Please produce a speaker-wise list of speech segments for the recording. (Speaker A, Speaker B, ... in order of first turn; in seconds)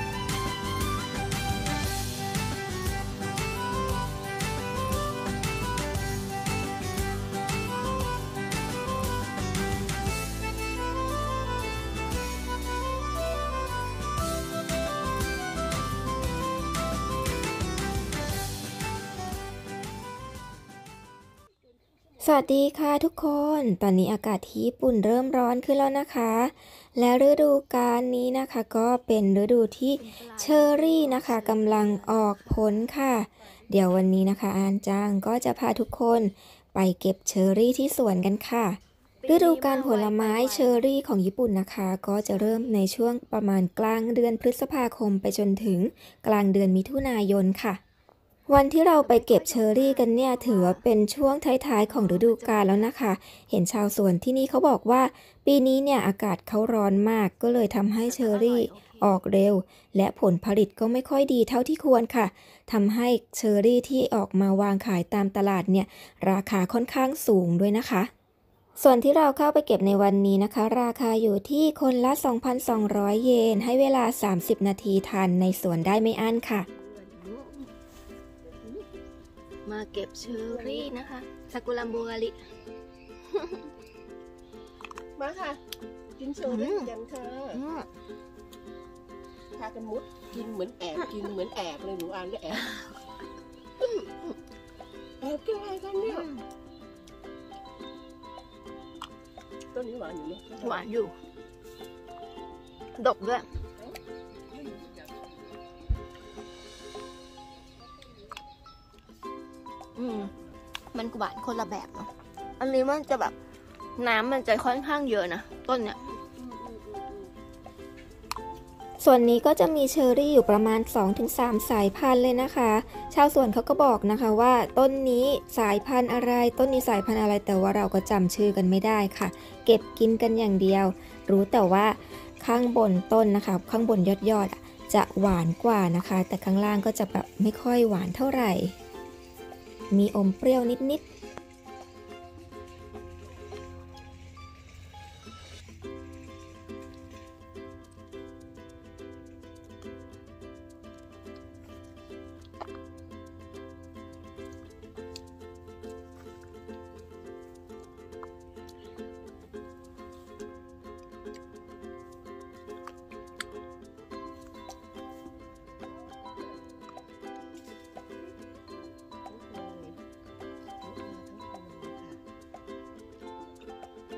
Speaker A: 22.2-47.8, 48.5-68.1, 68.8-76.7, 79.7-82.1, 119.0-138.8, 139.9-141.1
Speaker B: 30.0-32.8, 39.2-40.9, 49.0-50.8, 51.9-52.9, 58.1-59.2, 77.2-77.5, 80.3-81.0, 81.5-82.3, 86.5-86.9, 87.5-87.9, 96.0-96.4, 100.6-101.1, 103.0-103.5, 110.0-110.3, 110.9-113.3, 114.0-116.1
Speaker C: 80.2-80.9, 85.2-85.6, 86.2-87.7, 89.6-92.8, 95.2-96.3, 99.7-100.9, 169.3-170.0, 170.8-172.2